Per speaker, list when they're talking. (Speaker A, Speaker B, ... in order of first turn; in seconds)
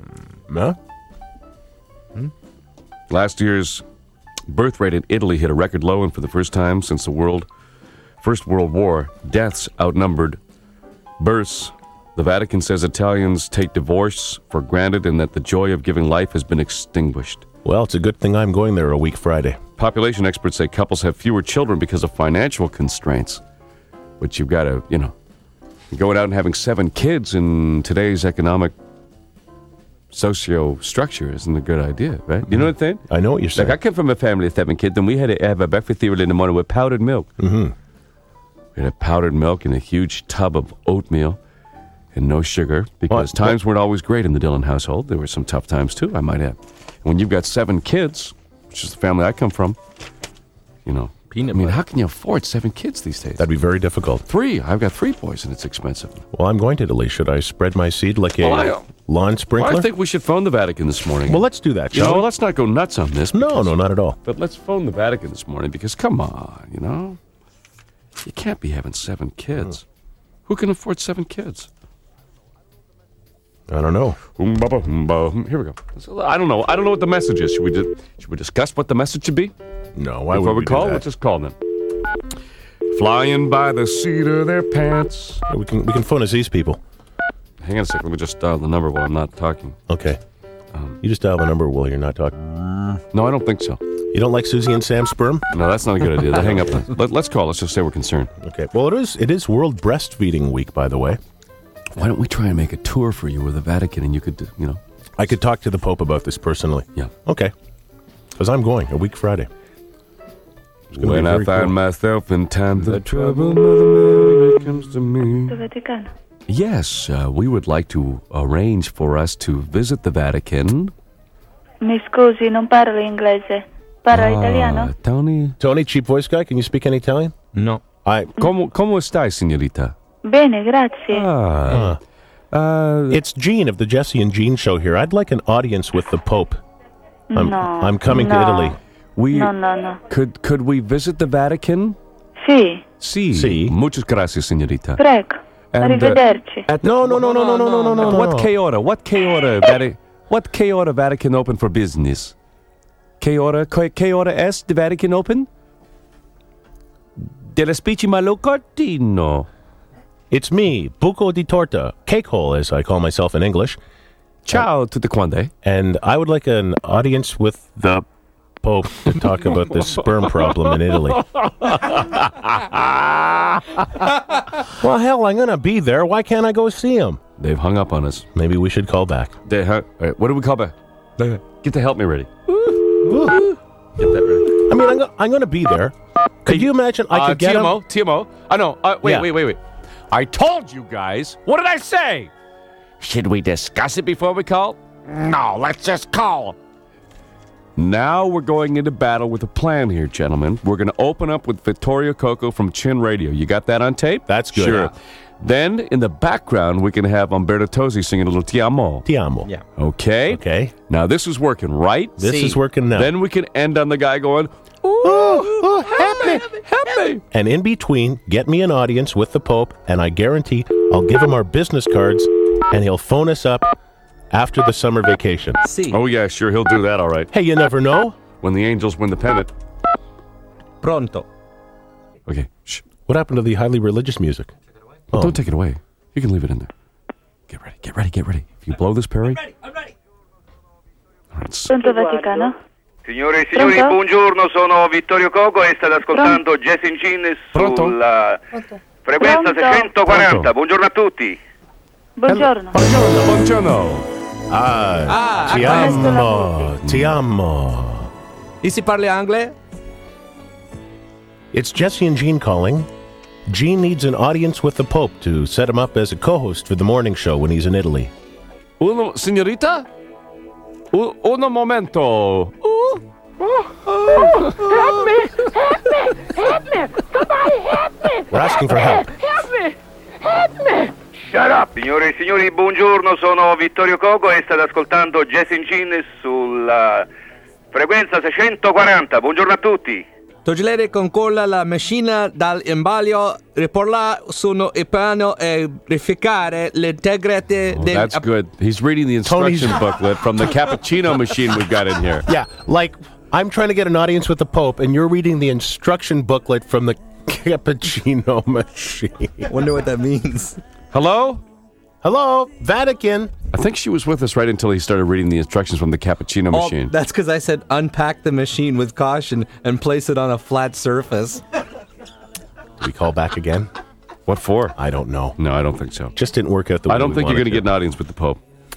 Speaker A: 0.5-0.8, 17.6-19.6, 32.5-33.8, 37.4-37.7, 43.1-43.5, 53.4-54.2, 56.3-59.9, 61.3-62.3, 63.3-64.2, 73.7-74.2, 79.9-81.0, 85.5-86.8, 89.9-90.2, 91.0-92.3, 94.1-95.5, 98.4-101.2, 105.2-107.5, 108.4-109.5, 111.0-111.7, 125.6-127.3, 128.0-128.3, 131.7-132.0, 133.1-136.6, 137.3-138.8, 143.3-143.7, 146.8-148.5, 160.3-163.8, 165.6-168.0, 168.6-172.8, 174.7-177.2, 178.3-179.3, 183.0-183.5, 184.6-187.8, 189.0-189.3, 204.3-204.9, 209.1-209.5, 210.3-210.7, 212.2-213.1, 215.0-216.4, 217.3-223.7, 224.3-225.6, 227.3-228.2, 233.1-234.5, 235.1-235.4, 254.5-258.1, 261.5-262.9, 263.5-268.1, 278.2-279.2, 299.2-299.9, 302.2-309.5, 312.0-313.3, 322.8-323.7, 324.8-325.4, 326.1-327.7
Speaker B: 3.1-3.8, 4.5-7.5, 8.2-10.4, 11.2-17.4, 19.8-23.4, 24.2-25.1, 25.9-28.7, 30.1-33.0, 33.5-37.3, 38.7-41.4, 42.1-49.8, 50.9-53.4, 54.3-56.2, 58.4-58.9, 59.6-63.7, 64.2-67.2, 68.2-69.8, 70.5-71.7, 74.3-79.5, 80.3-81.5, 82.9-85.4, 87.6-89.8, 90.7-91.0, 93.1-93.8, 95.5-98.3, 102.0-104.8, 110.9-115.6, 116.5-120.9, 124.1-125.6, 128.4-129.9, 131.1-131.9, 132.5-133.2, 139.2-139.5, 140.1-142.0, 143.0-145.0, 145.7-152.3, 153.2-155.5, 157.2-159.5, 164.4-165.5, 171.6-172.8, 177.4-178.2, 179.4-183.4, 184.0-184.6, 186.4-192.3, 193.0-196.6, 197.8-209.1, 209.8-212.3, 212.9-217.2, 225.9-227.3, 228.4-229.5, 232.2-232.8, 235.1-236.7, 237.5-239.4, 241.3-241.7, 247.5-247.9, 250.1-250.5, 252.2-254.1, 256.8-257.2, 268.8-269.9, 270.9-273.0, 274.1-275.0, 297.7-302.3, 310.9-311.4, 313.5-316.9, 324.2-324.8, 325.4-326.1, 326.9-328.4
Speaker C: 51.3-51.8, 127.5-127.8, 147.5-147.9, 212.2-212.6, 225.6-226.0, 230.8-231.2, 255.1-256.1, 258.6-259.5, 290.4-298.3, 309.5-310.6, 316.5-321.4
Speaker D: 115.5-116.1, 121.8-124.9, 130.2-131.3, 137.3-138.8, 139.3-140.0, 142.4-142.8, 145.0-146.6, 241.7-242.5, 243.5-244.0, 246.1-246.4, 249.2-249.9, 252.2-252.8, 255.4-256.7
Speaker E: 243.0-248.4, 249.0-251.4, 281.7-287.1, 287.7-290.0